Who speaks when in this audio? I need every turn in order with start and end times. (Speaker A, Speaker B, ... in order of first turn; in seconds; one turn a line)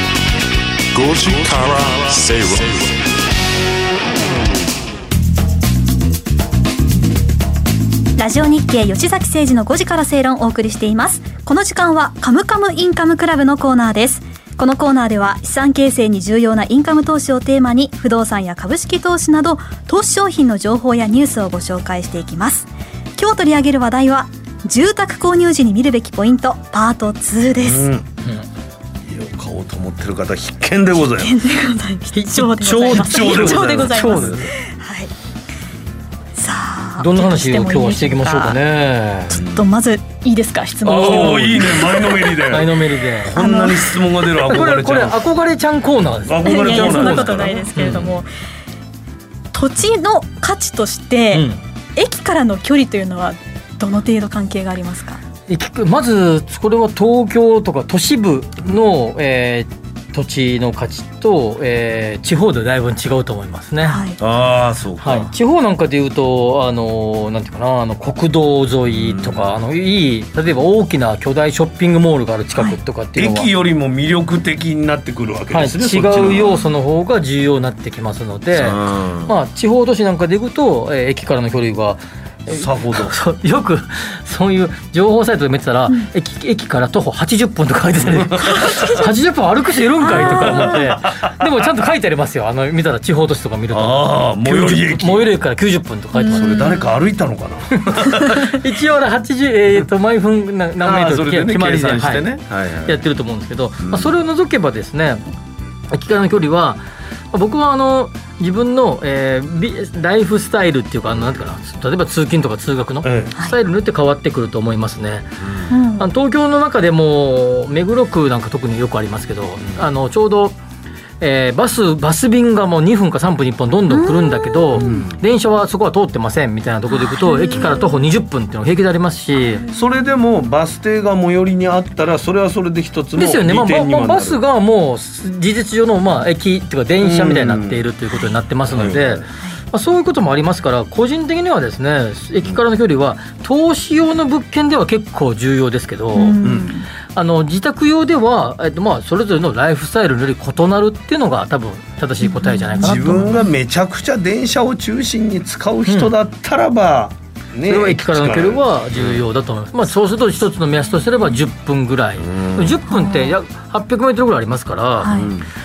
Speaker A: 0.9-2.9
Speaker B: 8.2-27.9
Speaker C: 27.6-28.1
Speaker C: 29.1-31.3
Speaker B: 30.9-35.1
Speaker D: 32.1-34.5
Speaker C: 32.6-34.4
Speaker B: 36.3-38.6
Speaker D: 37.0-39.4
Speaker B: 39.3-42.6
Speaker C: 39.4-39.6
Speaker C: 40.8-45.3
Speaker D: 40.9-41.6
Speaker D: 42.5-43.4
Speaker B: 43.3-44.2
Speaker D: 44.5-48.1
Speaker C: 46.2-47.7
Speaker B: 46.4-48.2
Speaker B: 49.5-55.2
Speaker D: 51.3-51.6
Speaker D: 55.5-64.0
Speaker B: 63.8-64.2
Speaker C: 64.2-65.3
Speaker D: 65.0-73.5
Speaker C: 68.9-69.5
Speaker C: 73.2-76.6
Speaker D: 75.5-96.5
Speaker C: 78.5-79.3
Speaker C: 82.5-83.2
Speaker C: 88.1-88.7
Speaker B: 88.4-89.0
Speaker B: 90.0-90.8
Speaker C: 90.1-91.5
Speaker C: 93.7-95.3
Speaker B: 96.1-96.9
Speaker C: 96.3-98.5
Speaker D: 97.7-102.3
Speaker C: 100.8-103.0
Speaker D: 102.8-105.2
Speaker C: 103.8-104.1
Speaker D: 105.9-115.3
Speaker C: 113.0-113.3
Speaker B: 115.7-116.1
Speaker D: 116.0-120.6
Speaker D: 121.2-129.6
Speaker B: 123.9-125.1
Speaker C: 124.8-125.1
Speaker B: 126.9-127.9
Speaker B: 129.3-129.8
Speaker C: 129.7-134.4
Speaker D: 133.2-146.4
Speaker C: 137.0-137.8
Speaker C: 138.7-139.2
Speaker B: 146.1-146.9
Speaker C: 146.4-146.7
Speaker D: 147.1-153.4
Speaker B: 152.2-153.2
Speaker C: 152.8-159.2
Speaker D: 155.9-156.1
Speaker D: 157.6-165.3
Speaker C: 162.2-162.8
Speaker B: 162.9-163.3
Speaker B: 165.0-165.3
Speaker C: 165.1-165.5